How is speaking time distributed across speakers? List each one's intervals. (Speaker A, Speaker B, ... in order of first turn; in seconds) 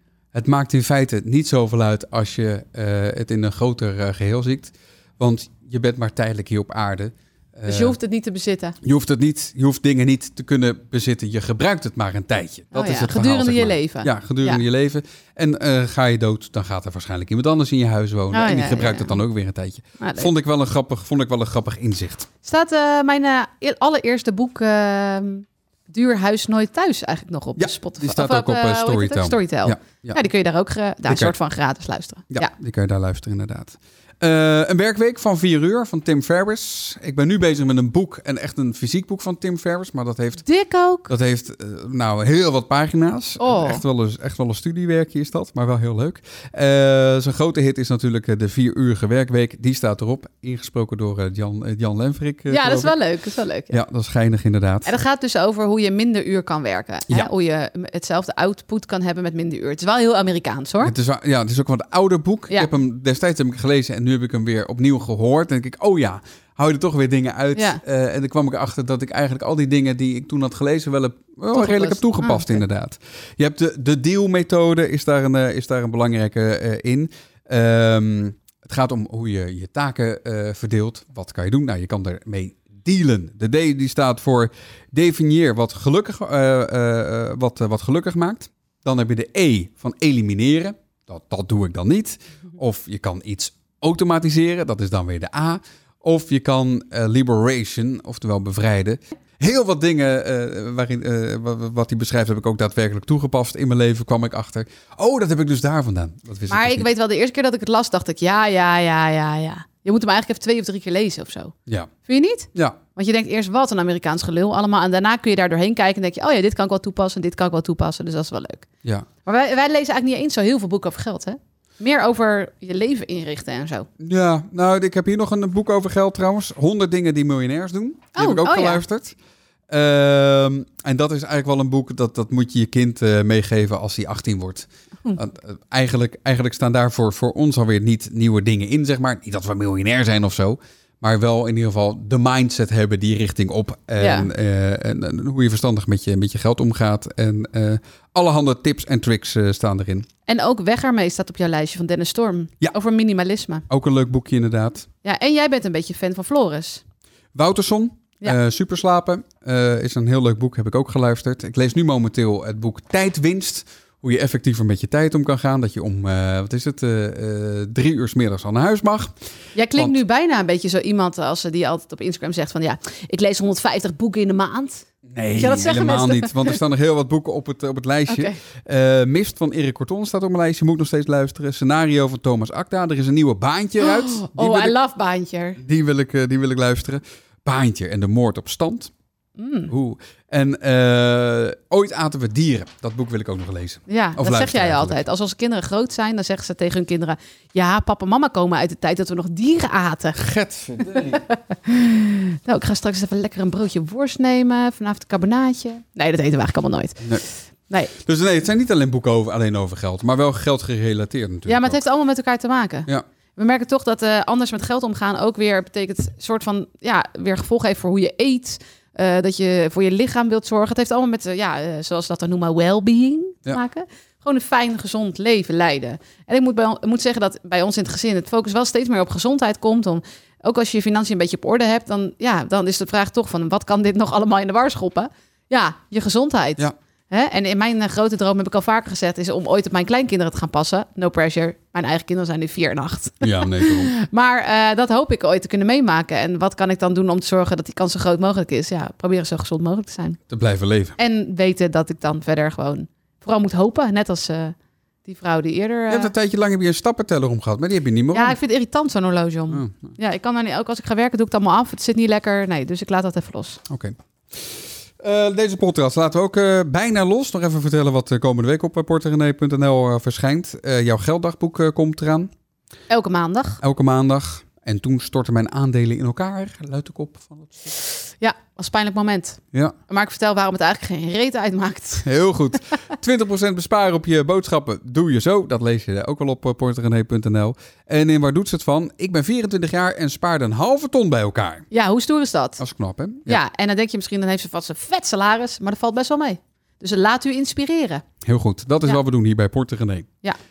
Speaker A: 0.3-8.0, 8.8-22.3, 27.6-30.2, 31.1-31.3, 32.3-40.4, 41.1-52.9, 53.7-54.9, 60.8-106.9, 124.0-129.2, 129.7-150.1, 153.7-154.9, 157.3-169.1, 175.1-184.7, 185.6-188.9, 189.7-195.0, 200.2-201.2, 207.9-211.8, 243.2-243.9, 250.3-250.9, 255.9-258.4, 259.5-259.9, 263.7-272.3, 273.6-277.8, 282.1-291.6, 292.6-293.4, 298.2-300.1
Speaker B: 7.7-8.8, 12.7-14.6, 18.3-19.2, 20.0-20.3, 22.4-32.5, 40.5-41.1, 43.4-43.8, 52.5-53.8, 54.9-60.9, 71.5-72.6, 106.5-118.7, 119.2-123.9, 128.2-128.8, 144.0-144.3, 150.3-153.7, 155.0-156.8, 169.6-176.6, 178.1-178.4, 183.8-185.6, 189.4-189.7, 193.9-200.2, 200.8-207.2, 211.5-250.2, 251.0-256.1, 258.1-263.6, 272.9-273.6, 278.2-282.1, 291.7-292.6, 293.3-298.0